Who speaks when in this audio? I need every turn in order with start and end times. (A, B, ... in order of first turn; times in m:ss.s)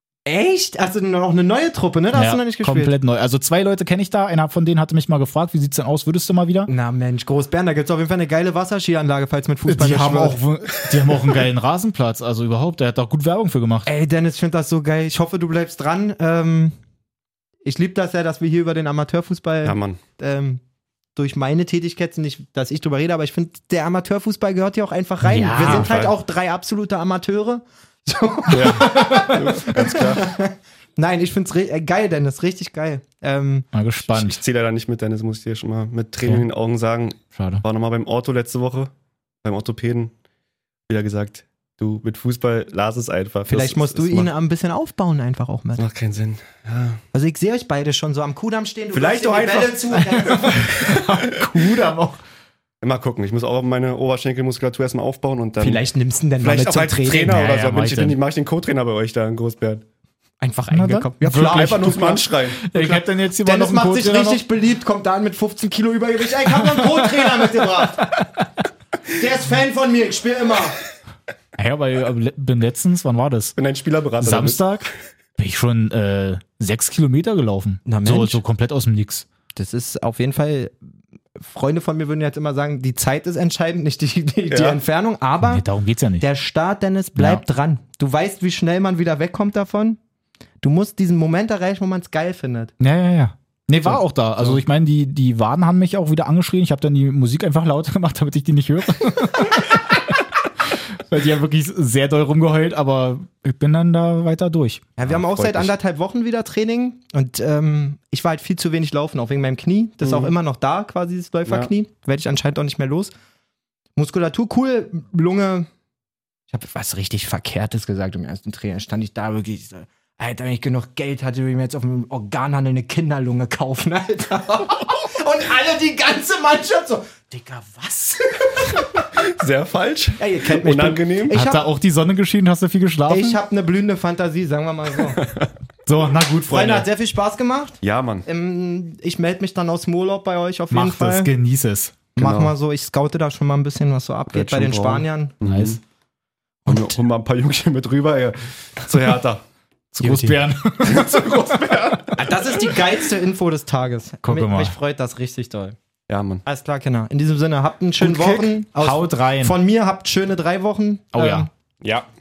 0:00.3-0:02.9 A
0:02.1-0:06.7 B
0:06.7-0:10.4 A
0:09.7-0:13.9 B
0:13.9-0:16.8 A
0:17.6-0:20.6 A
0:19.6-0:20.0 C
0:21.2-0:33.7 A
0:25.2-0:26.1 B
0:25.6-0:26.1 C
0:28.5-0:30.3 C
0:33.7-0:34.4 B
0:34.1-0:38.9 C
0:37.4-0:37.6 B
0:39.4-0:40.1 C
0:40.9-0:44.3 C
0:43.5-0:45.8 A
0:45.8-0:47.0 C
0:47.1-0:50.7 A
0:48.9-0:51.5 C
0:50.0-0:52.2 B
0:52.8-0:55.8 C
0:55.6-0:57.4 A
0:56.4-0:59.8 C
0:57.3-0:58.2 B
1:00.4-1:08.2 A
1:00.7-1:02.0 B
1:01.3-1:02.6 C
1:02.6-1:04.4 B
1:09.1-1:10.8 A
1:11.6-1:13.6 B
1:13.6-1:14.6 C
1:14.2-1:19.3 B
1:17.9-1:18.4 A
1:19.6-1:20.8 A
1:21.4-1:25.6 A
1:24.5-1:24.8 C
1:25.4-1:26.3 B
1:26.2-1:30.0 A
1:27.2-1:27.4 B
1:30.6-1:32.7 A
1:32.8-1:44.9 B
1:33.9-1:34.6 A
1:45.0-1:53.1 A
1:45.1-1:45.7 C
1:50.0-1:50.3 C
1:54.0-1:55.7 A
1:56.5-2:08.8 A
2:09.1-2:11.4 C
2:10.2-2:11.7 A
2:11.3-2:13.4 B
2:13.1-2:15.2 A
2:15.2-2:15.5 C
2:15.9-2:16.9 B
2:16.5-2:21.3 A
2:17.8-2:18.3 C
2:20.7-2:22.0 B
2:22.2-2:25.3 A
2:22.2-2:22.5 C
2:24.3-2:25.8 C
2:25.4-2:25.8 B
2:26.7-2:29.4 C
2:29.9-2:32.0 B
2:30.0-2:30.4 A
2:30.8-2:32.8 C
2:32.1-2:35.8 A
2:34.2-2:34.8 B
2:36.1-2:36.4 C
2:36.5-2:41.5 A
2:38.0-2:39.6 B
2:41.1-2:41.5 B
2:41.8-2:42.1 C